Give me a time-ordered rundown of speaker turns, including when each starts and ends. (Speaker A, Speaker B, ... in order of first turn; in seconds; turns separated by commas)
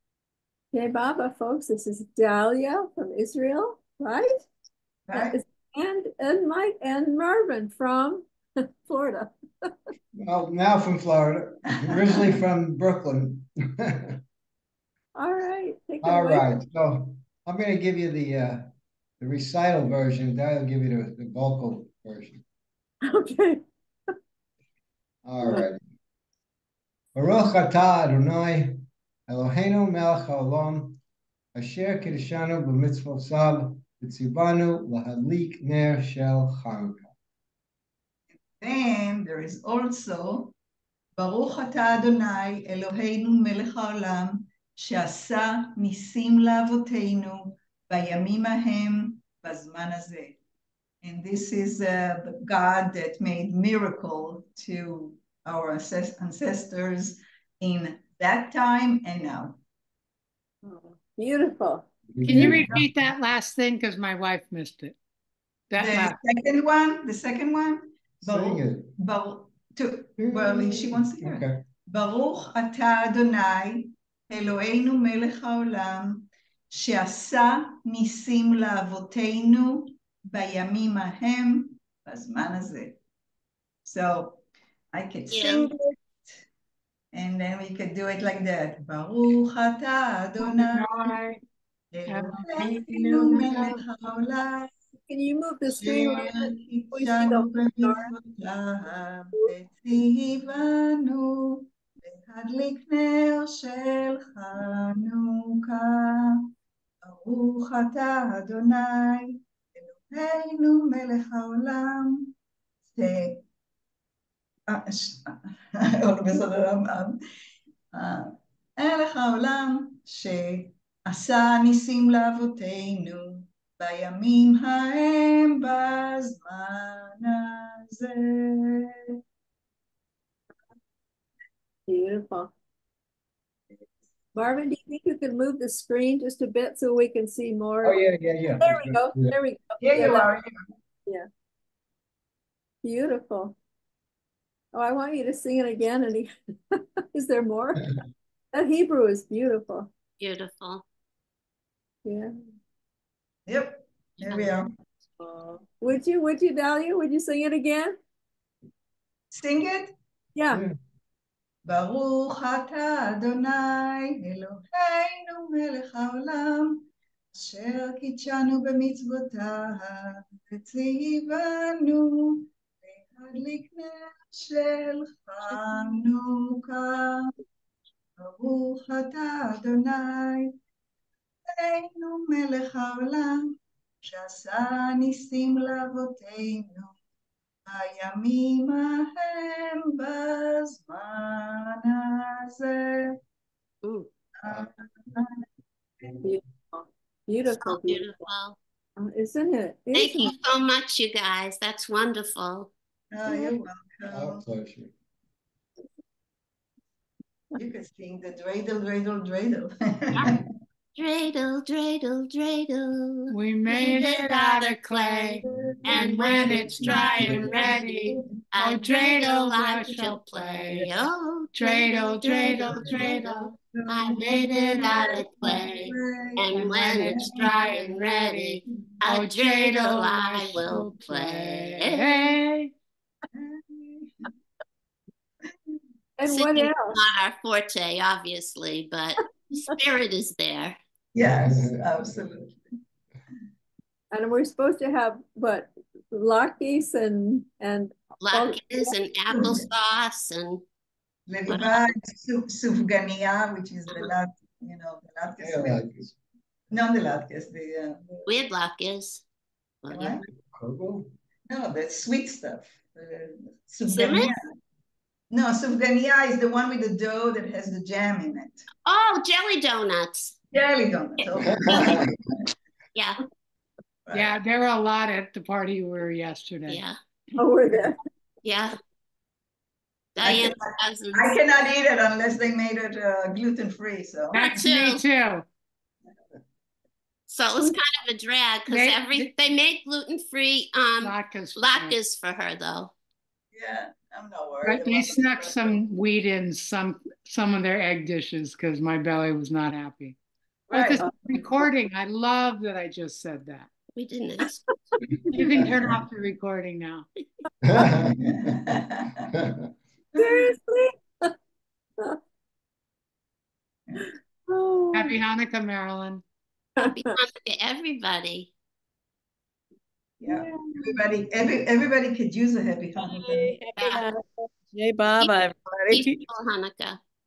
Speaker A: 0.7-4.4, Speaker B: 5.1-5.4, Speaker A: 5.1-8.3, Speaker A: 8.8-9.3, Speaker C: 10.2-14.2, Speaker A: 15.2-16.5, Speaker C: 16.0-18.7, Speaker C: 19.2-22.4, Speaker A: 23.1-23.6, Speaker C: 25.2-25.8, Speaker C: 27.1-31.0, Speaker C: 31.6-37.1, Speaker B: 38.6-40.5, Speaker B: 41.2-50.4, Speaker B: 51.0-59.6, Speaker A: 60.6-62.6, Speaker C: 62.1-62.9, Speaker D: 62.2-65.0, Speaker D: 65.7-66.2, Speaker B: 65.8-83.0, Speaker C: 68.2-69.0, Speaker C: 70.2-71.6, Speaker B: 83.8-85.7, Speaker E: 85.3-85.7, Speaker B: 87.1-91.1, Speaker D: 90.4-91.4, Speaker B: 91.9-94.7, Speaker D: 92.1-92.8, Speaker F: 92.6-93.8, Speaker A: 95.1-98.1, Speaker B: 95.7-106.4, Speaker B: 107.0-112.3, Speaker B: 112.9-113.4, Speaker B: 114.7-115.4, Speaker B: 116.0-117.2, Speaker B: 117.9-128.9, Speaker A: 131.9-132.5, Speaker A: 134.3-138.0, Speaker C: 137.8-139.3, Speaker A: 138.6-140.3, Speaker B: 139.8-140.5, Speaker A: 142.8-143.6, Speaker A: 144.7-146.3, Speaker A: 147.1-147.9, Speaker A: 148.5-149.9, Speaker E: 150.2-150.8, Speaker A: 152.1-152.3, Speaker B: 153.5-154.7, Speaker F: 155.2-155.6, Speaker A: 155.8-158.0, Speaker B: 159.3-159.9, Speaker A: 160.3-160.6, Speaker B: 161.7-166.8, Speaker B: 167.3-177.2, Speaker B: 178.2-180.5, Speaker B: 181.6-187.0, Speaker B: 187.7-193.2, Speaker E: 193.8-194.1, Speaker B: 194.4-195.3, Speaker B: 196.0-196.3, Speaker A: 196.2-198.3, Speaker E: 197.5-198.6, Speaker A: 199.0-200.3, Speaker E: 199.9-202.7, Speaker B: 203.1-204.4, Speaker A: 203.3-203.6, Speaker C: 204.1-204.9, Speaker B: 207.6-210.4, Speaker E: 210.9-232.4, Speaker D: 213.3-223.5, Speaker B: 213.8-214.2, Speaker B: 215.5-218.2, Speaker B: 222.4-227.4, Speaker D: 224.2-225.9, Speaker D: 226.5-232.7, Speaker B: 233.3-234.1, Speaker A: 236.2-237.0, Speaker E: 236.3-240.8, Speaker B: 241.1-242.6, Speaker C: 241.2-242.3, Speaker A: 244.1-248.9, Speaker E: 248.2-250.6, Speaker B: 249.3-249.7, Speaker B: 251.3-255.8, Speaker E: 251.5-251.9, Speaker C: 255.4-256.2, Speaker B: 256.7-258.4, Speaker E: 258.3-259.2, Speaker E: 259.8-260.2, Speaker B: 259.9-260.2, Speaker C: 260.5-261.1, Speaker B: 261.5-264.4, Speaker E: 263.9-264.3, Speaker B: 265.3-268.7, Speaker E: 268.9-270.4, Speaker B: 270.5-272.1, Speaker C: 271.4-272.1, Speaker E: 272.9-273.2, Speaker B: 274.1-274.4, Speaker D: 274.1-276.8, Speaker E: 276.7-277.0, Speaker A: 277.4-278.0, Speaker E: 278.4-278.8, Speaker E: 280.2-281.4, Speaker B: 280.2-284.5, Speaker D: 284.3-285.5, Speaker E: 284.4-285.0, Speaker E: 287.3-292.9, Speaker A: 287.5-287.8, Speaker D: 288.7-289.4, Speaker D: 291.0-292.0, Speaker B: 293.5-295.8, Speaker D: 294.6-300.2, Speaker B: 300.7-301.1, Speaker D: 300.7-303.7, Speaker E: 303.9-304.6, Speaker D: 305.3-307.1, Speaker C: 305.6-306.0, Speaker C: 307.7-308.5, Speaker B: 308.0-309.1, Speaker B: 310.2-310.5, Speaker A: 310.2-311.3, Speaker A: 314.0-315.2, Speaker D: 314.9-316.2, Speaker A: 316.8-317.1, Speaker E: 316.8-318.5, Speaker B: 320.2-323.5, Speaker A: 320.3-320.9, Speaker F: 323.0-326.2, Speaker E: 323.8-324.1, Speaker E: 325.9-327.0